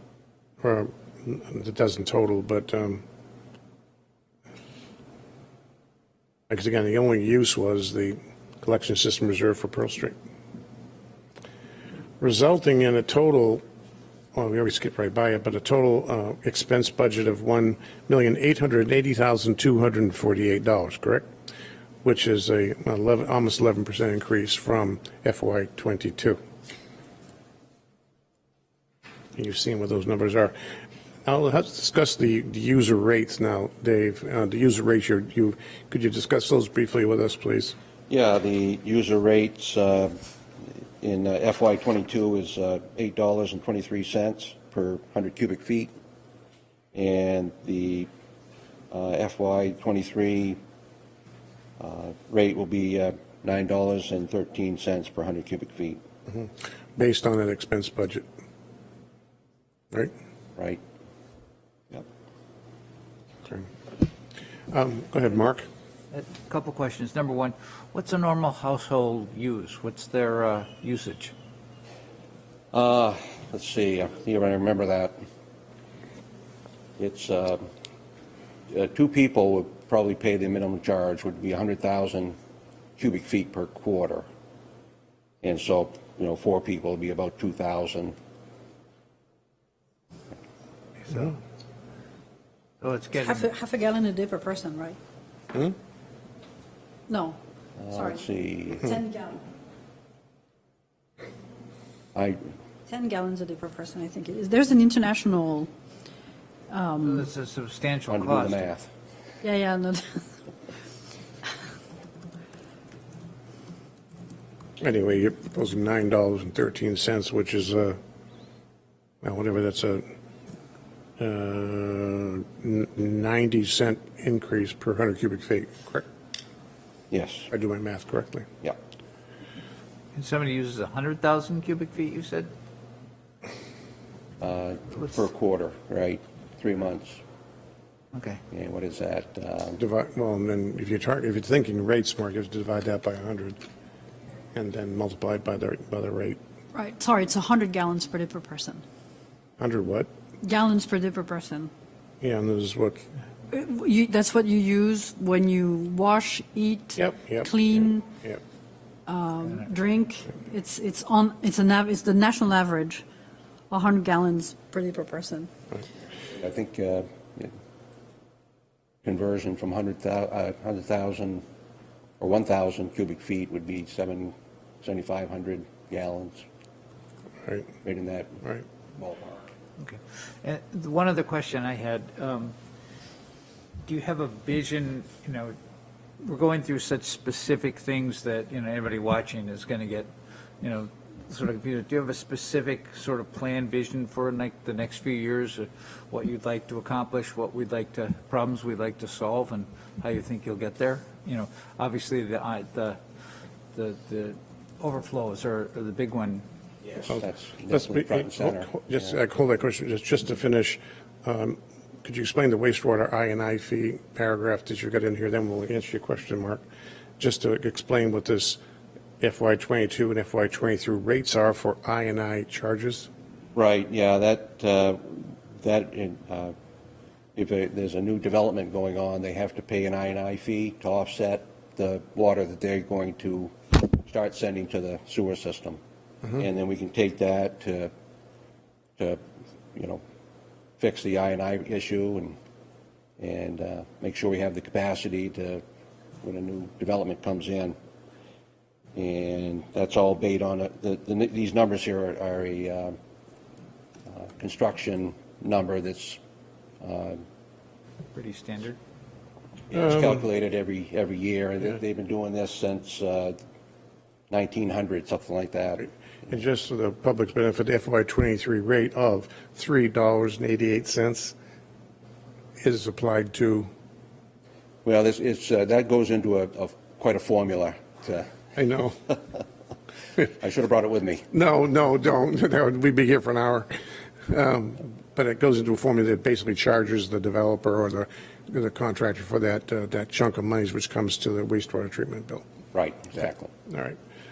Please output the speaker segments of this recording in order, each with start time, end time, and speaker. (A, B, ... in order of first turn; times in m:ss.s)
0:00.6-0:03.0 A
0:06.5-0:10.2 A
0:12.2-0:13.6 A
0:14.4-0:21.3 A
0:22.0-0:26.4 A
0:29.4-0:30.6 A
0:31.2-0:37.8 A
0:38.1-0:40.2 B
0:41.0-0:45.9 B
0:46.9-0:48.1 B
0:48.9-0:50.6 B
0:51.8-0:56.0 B
0:56.3-0:58.2 A
1:00.6-1:00.8 B
1:04.7-1:05.7 A
1:06.1-1:11.3 C
1:12.7-1:15.2 B
1:17.0-1:17.7 B
1:18.7-1:22.4 B
1:23.0-1:24.3 B
1:25.4-1:28.2 B
1:31.1-1:31.4 C
1:32.8-1:33.5 C
1:33.2-1:35.0 D
1:37.1-1:37.4 D
1:37.8-1:38.9 B
1:37.9-1:39.4 D
1:42.2-1:42.4 B
1:42.9-1:45.7 D
1:46.7-1:47.3 D
1:47.0-1:48.6 C
1:48.1-1:48.9 B
1:49.4-1:50.3 D
1:54.8-1:58.0 A
1:59.2-2:00.1 A
2:01.2-2:06.1 A
2:07.1-2:07.5 B
2:07.5-2:08.5 A
2:10.2-2:12.5 C
2:14.4-2:17.2 B
2:18.1-2:18.4 C
2:18.5-2:19.8 B
2:19.8-2:23.6 A
2:24.5-2:26.4 A
2:26.8-2:28.8 D
2:29.6-2:30.1 A
2:30.4-2:31.7 D
2:32.2-2:33.0 A
2:33.5-2:38.1 D
2:37.0-2:37.5 A
2:39.1-2:43.0 D
2:39.5-2:39.7 C
2:43.7-2:45.5 D
2:46.3-2:47.5 B
2:49.0-2:51.4 B
2:52.2-2:56.4 B
2:57.8-2:58.4 B
2:59.0-2:59.5 B
2:59.8-3:02.6 C
3:03.9-3:05.6 C
3:06.2-3:10.1 C
3:10.6-3:23.0 C
3:23.7-3:26.4 C
3:26.9-3:29.2 B
3:27.1-3:36.6 A
3:37.2-3:38.6 A
3:39.2-3:43.1 A
3:43.6-3:46.5 B
3:47.4-3:55.8 B
3:56.4-3:57.9 B
3:59.8-4:00.0 B
4:00.8-4:02.4 B
4:03.2-4:05.6 B
4:06.2-4:07.8 B
4:09.0-4:13.0 B
4:14.1-4:16.2 B
4:16.8-4:17.2 B
4:18.1-4:18.8 C
4:19.7-4:23.4 B
4:24.3-4:25.9 B
4:25.8-4:31.3 A
4:32.6-4:33.7 A
4:34.8-4:38.3 B
4:38.6-4:39.0 A
4:40.4-4:41.3 B
4:41.3-4:52.4 A
4:52.7-4:53.5 B
4:53.7-4:54.0 A